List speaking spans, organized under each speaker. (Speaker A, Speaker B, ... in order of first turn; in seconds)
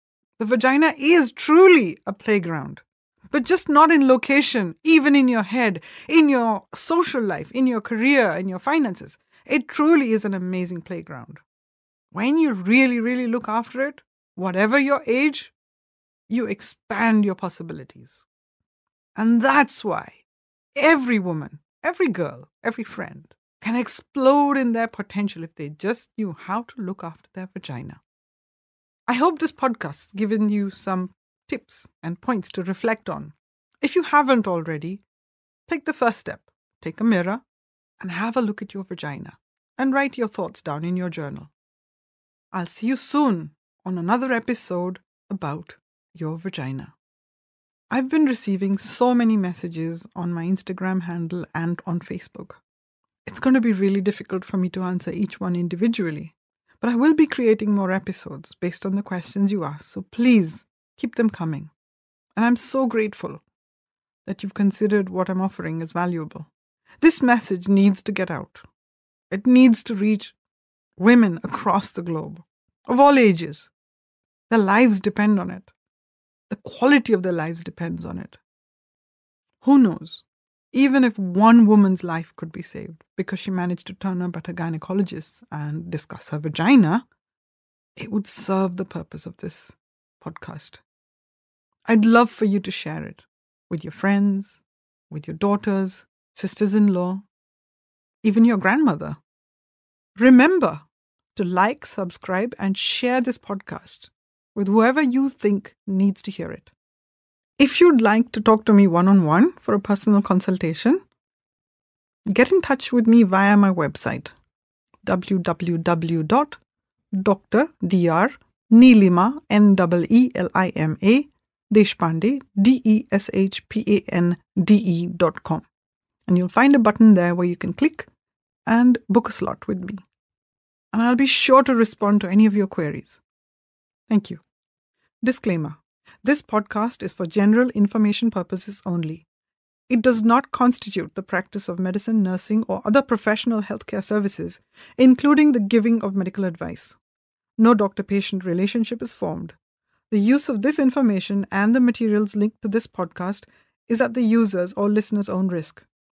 Speaker A: 0.4-11.4, 12.1-15.5, 16.3-18.2, 19.1-20.2, 20.7-28.0, 29.1-35.0, 35.7-37.4, 38.0-41.5, 42.5-46.9, 47.9-52.6, 53.2-61.7, 62.4-63.4, 64.2-68.6, 69.3-70.3, 71.0-73.7, 74.5-75.7, 76.5-78.4, 79.6-87.0, 88.0-90.8, 91.9-97.2, 98.2-99.2, 100.2-106.7, 107.6-111.0, 112.3-114.3, 115.0-116.6, 117.1-125.7, 126.3-128.1, 128.7-130.0, 130.9-133.2, 134.1-134.4, 135.2-139.2, 139.9-147.0, 147.6-149.6, 150.1-155.8